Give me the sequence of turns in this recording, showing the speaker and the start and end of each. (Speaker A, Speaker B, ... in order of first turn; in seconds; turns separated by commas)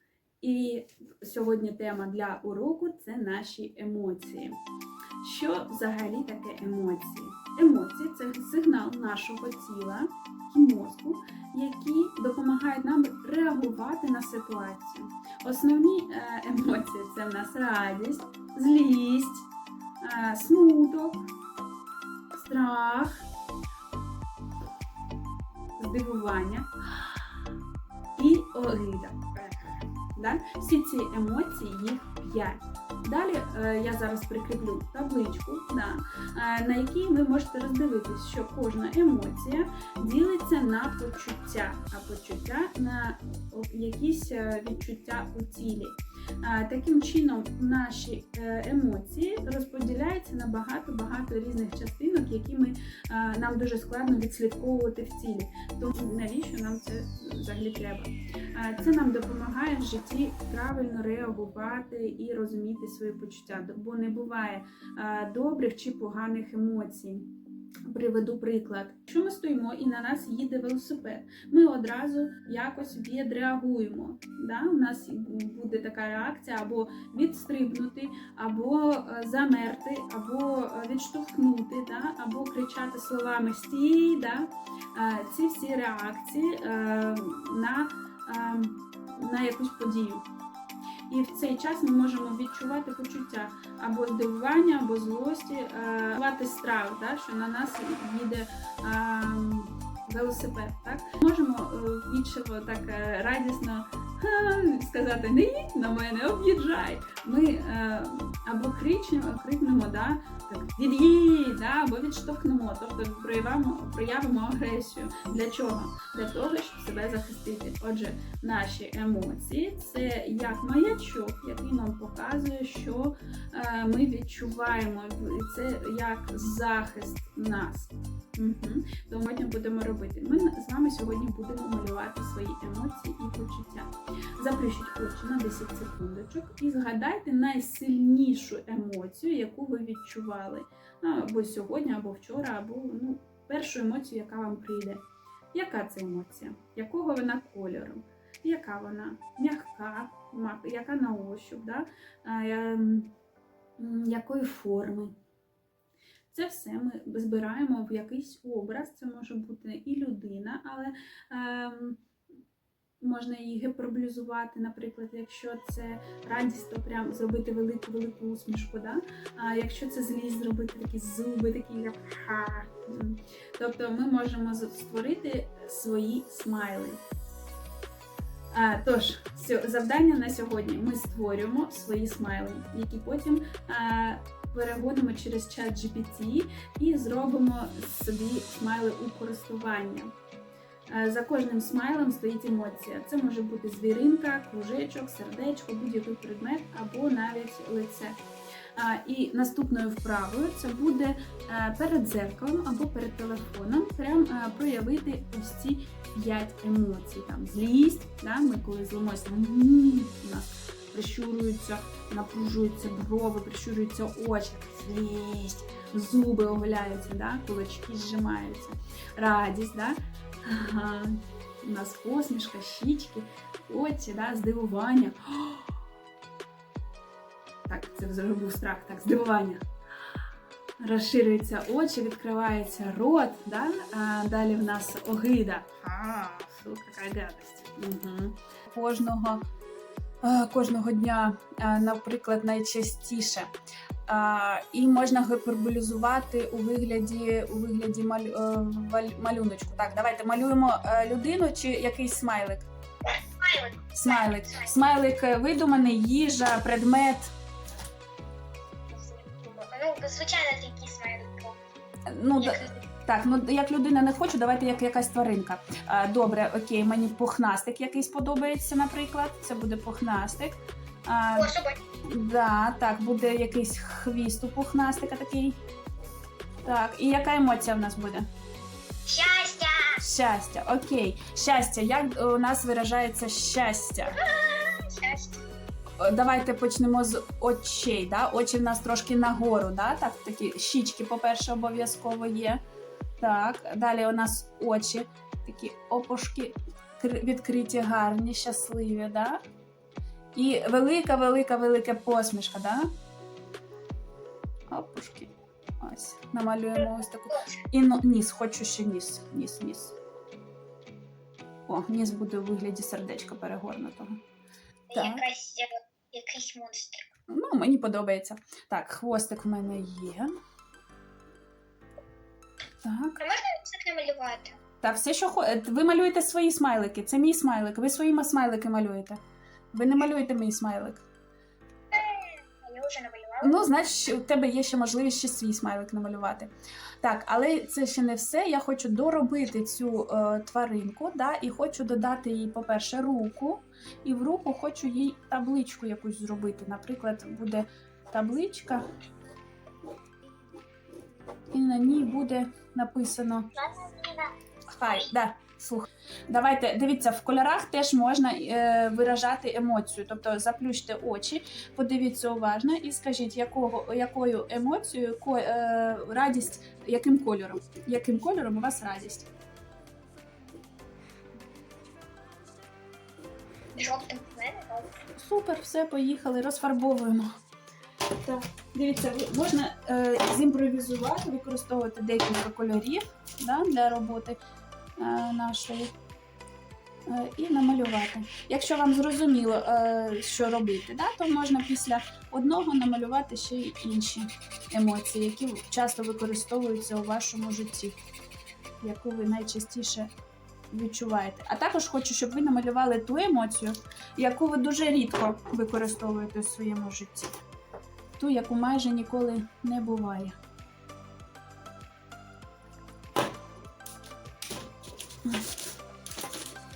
Speaker A: 0.4-4.5, Speaker A: 5.2-19.5, Speaker A: 20.0-21.3, Speaker A: 22.3-23.2, Speaker A: 25.8-26.7, Speaker A: 28.1-67.3, Speaker A: 67.9-90.2, Speaker A: 91.1-153.1, Speaker A: 153.8-155.1, Speaker A: 156.3-162.0, Speaker A: 163.0-177.0, Speaker A: 178.5-190.1, Speaker A: 190.9-198.2, Speaker A: 198.8-225.7, Speaker A: 227.7-229.6, Speaker A: 230.8-239.4, Speaker A: 240.2-243.5, Speaker A: 244.1-252.7, Speaker B: 253.1-254.7, Speaker A: 253.9-257.3, Speaker B: 258.9-261.6, Speaker A: 262.1-271.5, Speaker B: 262.4-262.8, Speaker B: 271.3-271.8, Speaker A: 272.0-275.6, Speaker A: 276.6-278.3, Speaker B: 279.1-280.0, Speaker A: 280.0-284.2, Speaker B: 284.2-285.4, Speaker A: 286.0-292.6, Speaker A: 293.2-299.4, Speaker A: 300.3-302.9, Speaker A: 304.7-309.9, Speaker B: 306.8-307.5, Speaker A: 311.7-314.2, Speaker B: 314.9-317.1, Speaker A: 314.9-315.2, Speaker A: 317.3-320.3, Speaker A: 322.8-323.2, Speaker B: 323.2-324.6, Speaker A: 324.8-329.2, Speaker A: 329.7-331.0, Speaker B: 331.9-333.6, Speaker A: 333.4-348.8, Speaker A: 351.5-353.5, Speaker B: 353.5-354.3, Speaker A: 354.7-369.3, Speaker B: 373.8-374.9, Speaker A: 375.1-377.3, Speaker A: 378.2-384.4, Speaker A: 385.0-385.9, Speaker A: 387.1-398.0, Speaker A: 398.8-400.1, Speaker A: 400.7-407.4, Speaker A: 408.2-410.3